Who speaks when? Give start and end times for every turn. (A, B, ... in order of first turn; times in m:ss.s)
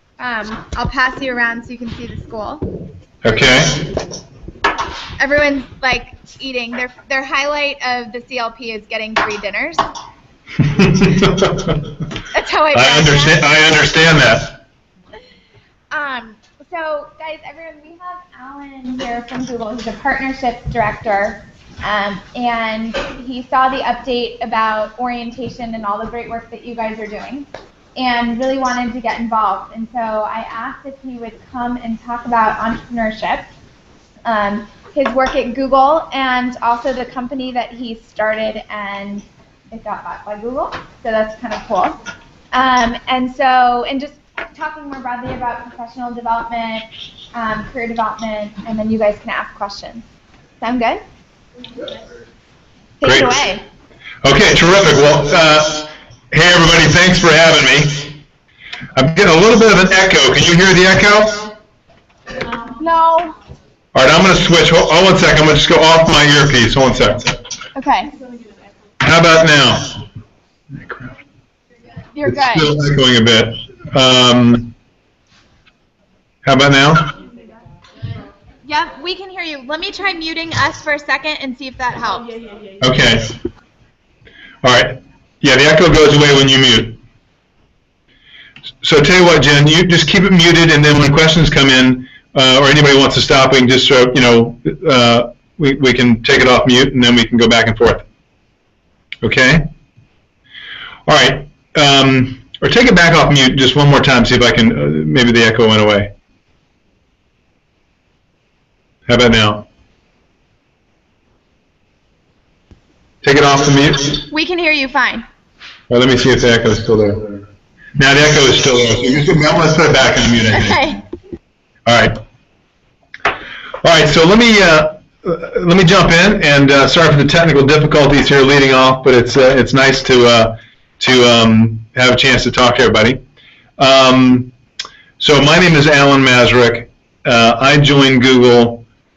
0:00.2-0:02.7 A
0:03.2-0:03.8 B
0:03.3-0:03.7 A
0:05.2-0:09.9 A
0:10.6-0:11.9 B
0:12.3-0:13.4 A
0:12.7-0:14.6 B
0:15.9-0:33.5 A
0:34.2-0:42.0 A
0:42.5-0:50.0 A
0:50.6-0:51.0 A
0:53.0-0:53.6 A
0:53.0-0:53.4 B
0:54.2-0:58.1 B
0:58.9-1:01.5 B
1:02.8-1:03.4 A
1:03.9-1:07.3 B
1:07.8-1:08.1 A
1:09.0-1:10.0 B
1:10.8-1:11.1 B
1:12.1-1:12.8 A
1:12.2-1:14.7 B
1:16.4-1:17.1 B
1:18.7-1:22.3 A
1:22.8-1:23.3 B
1:24.6-1:27.0 B
1:28.8-1:38.0 B
1:39.2-1:39.7 B
1:41.1-1:46.1 B
1:49.1-1:49.7 B
1:53.2-1:54.2 B
1:54.3-1:55.3 A
1:55.9-1:57.4 B
1:58.0-2:01.0 B
2:00.6-2:01.0 A
2:01.9-2:02.2 B
2:03.8-2:13.2 B
2:13.8-2:14.5 B
2:15.2-2:18.8 B